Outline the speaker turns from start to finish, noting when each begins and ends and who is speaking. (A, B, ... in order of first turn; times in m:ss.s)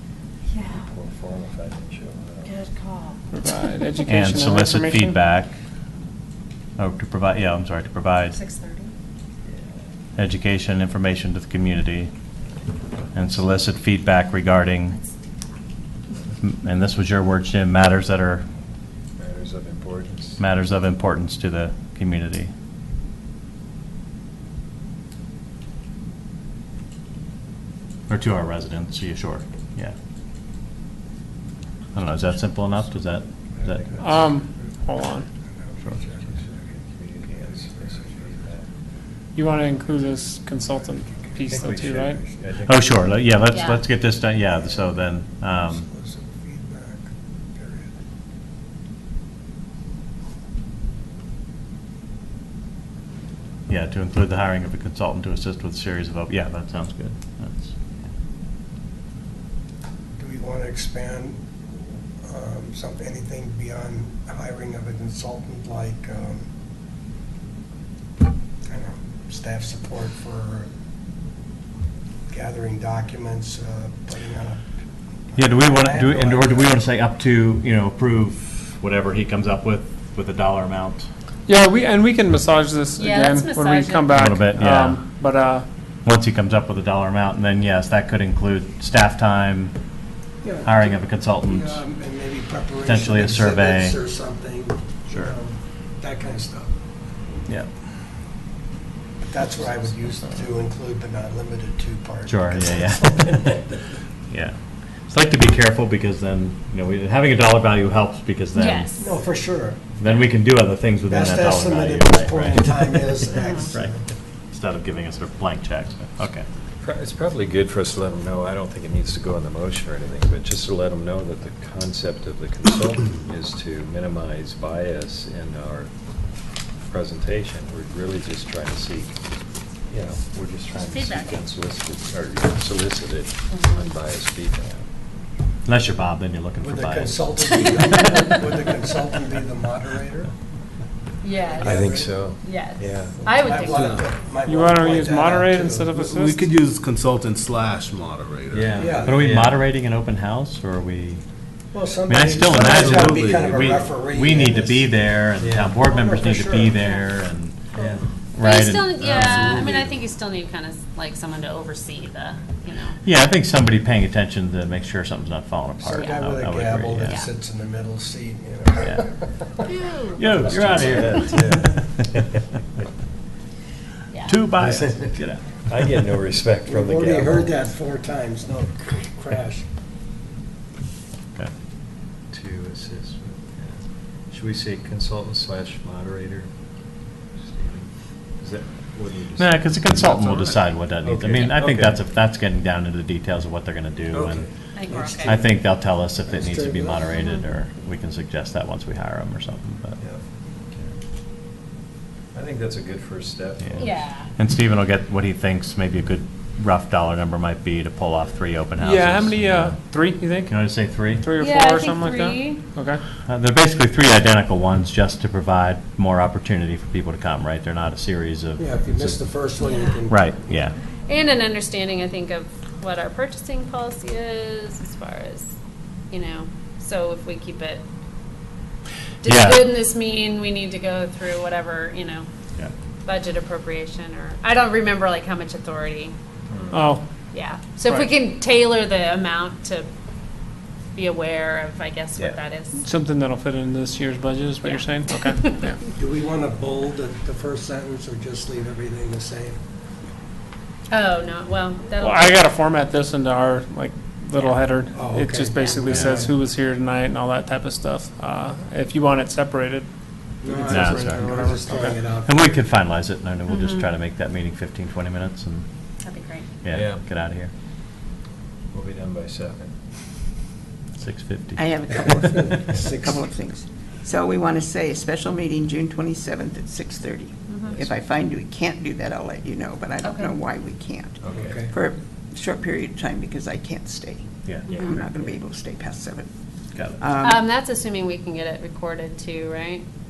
0:00.6-0:02.6 A
0:02.5-0:03.2 B
0:03.3-0:05.2 C
0:04.1-0:05.5 D
0:06.8-0:08.4 D
0:08.3-0:08.9 B
0:10.2-0:12.1 D
0:13.1-0:15.0 D
0:16.4-0:18.4 D
0:19.2-0:20.4 A
0:20.4-0:22.5 D
0:28.1-0:29.9 D
0:32.0-0:34.0 D
0:33.7-0:34.2 A
0:34.0-0:35.3 C
0:35.5-0:36.5 E
0:36.3-0:38.7 A
0:37.3-0:38.5 E
0:39.4-0:42.2 C
0:39.8-0:42.3 E
0:41.5-0:43.0 A
0:42.6-0:45.9 D
0:43.4-0:43.8 B
0:44.5-0:44.9 E
0:45.6-0:48.0 E
0:53.7-0:57.7 D
1:00.1-1:01.4 E
1:02.2-1:06.5 E
1:08.7-1:10.7 E
1:12.3-1:14.6 E
1:15.3-1:16.8 E
1:15.4-1:21.1 D
1:21.5-1:25.6 C
1:23.0-1:24.2 B
1:24.1-1:25.0 D
1:26.0-1:29.7 D
1:30.4-1:36.7 E
1:30.6-1:31.8 D
1:32.8-1:34.0 D
1:39.2-1:43.6 E
1:42.3-1:43.5 D
1:44.3-1:44.6 D
1:45.1-1:48.9 D
1:48.6-1:49.2 B
1:49.0-1:49.8 E
1:50.0-1:54.0 D
1:51.1-1:54.0 E
1:53.3-1:53.7 B
1:54.5-1:56.4 D
1:56.8-2:05.9 A
2:06.9-2:09.2 A
2:09.9-2:14.8 A
2:10.9-2:11.4 B
2:13.5-2:13.9 B
2:15.6-2:17.3 D
2:16.6-2:20.3 E
2:21.2-2:24.1 B
2:21.4-2:22.1 E
2:21.6-2:23.2 A
2:21.7-2:21.9 F
2:23.2-2:26.0 E
2:23.8-2:24.0 F
2:24.4-2:26.5 C
2:26.0-2:28.9 F
2:28.5-2:29.6 A
2:28.8-2:29.2 E
2:29.0-2:31.2 D
2:31.7-2:35.0 E
2:32.1-2:37.7 D
2:32.4-2:33.8 F
2:35.4-2:35.8 A
2:35.9-2:36.8 E
2:36.8-2:37.1 B
2:37.7-2:43.0 B
2:37.8-2:38.2 A
2:38.4-2:39.4 D
2:39.4-2:40.0 F
2:43.0-2:47.2 D
2:45.8-2:49.6 E
2:47.0-2:47.3 B
2:49.7-2:50.2 B
2:50.2-2:52.1 D
2:50.4-2:52.2 A
2:54.1-2:54.4 B
2:54.3-2:55.4 D
2:54.6-2:57.6 A
2:56.7-2:59.6 E
3:02.3-3:06.5 A
3:07.4-3:07.9 A
3:08.4-3:12.0 A
3:09.4-3:14.5 D
3:14.1-3:14.5 A
3:14.8-3:15.4 B
3:14.9-3:15.5 E
3:15.2-3:20.0 D
3:16.3-3:17.1 E
3:17.2-3:17.5 B
3:20.0-3:20.9 A
3:22.3-3:24.0 A
3:23.6-3:29.8 D
3:23.8-3:24.3 B
3:28.8-3:30.6 C
3:30.5-3:31.4 D
3:31.1-3:33.0 C
3:31.4-3:32.7 B
3:33.2-3:39.3 D
3:38.6-3:40.3 E
3:39.6-3:40.1 B
3:40.1-3:40.8 D
3:41.1-3:45.5 B
3:46.1-3:47.8 B
3:49.2-3:52.3 B
3:49.2-3:49.7 D
3:53.0-3:56.2 B
3:56.5-3:56.9 A
3:56.7-3:57.0 C
3:57.3-3:59.9 B
4:01.0-4:02.8 B
4:02.8-4:05.8 C
4:04.6-4:05.7 B
4:06.0-4:09.6 E
4:10.9-4:12.4 B
4:12.0-4:19.9 C
4:14.9-4:16.3 E
4:15.6-4:15.9 B
4:15.9-4:16.3 D
4:20.4-4:22.5 E
4:20.4-4:22.0 C
4:20.7-4:21.3 D
4:22.2-4:25.7 D
4:23.5-4:23.9 B
4:26.0-4:26.5 B
4:26.6-4:27.5 D
4:26.7-4:27.0 A
4:28.7-4:29.8 A
4:31.0-4:31.7 D
4:31.6-4:46.3 G
4:32.1-4:32.9 E
4:37.5-4:37.8 B
4:40.0-4:40.3 B
4:41.3-4:41.8 E
4:44.4-4:44.8 D
4:44.7-4:45.0 B
4:44.7-4:45.0 A
4:46.8-4:47.1 D
4:47.0-4:47.5 G
4:47.2-4:49.8 B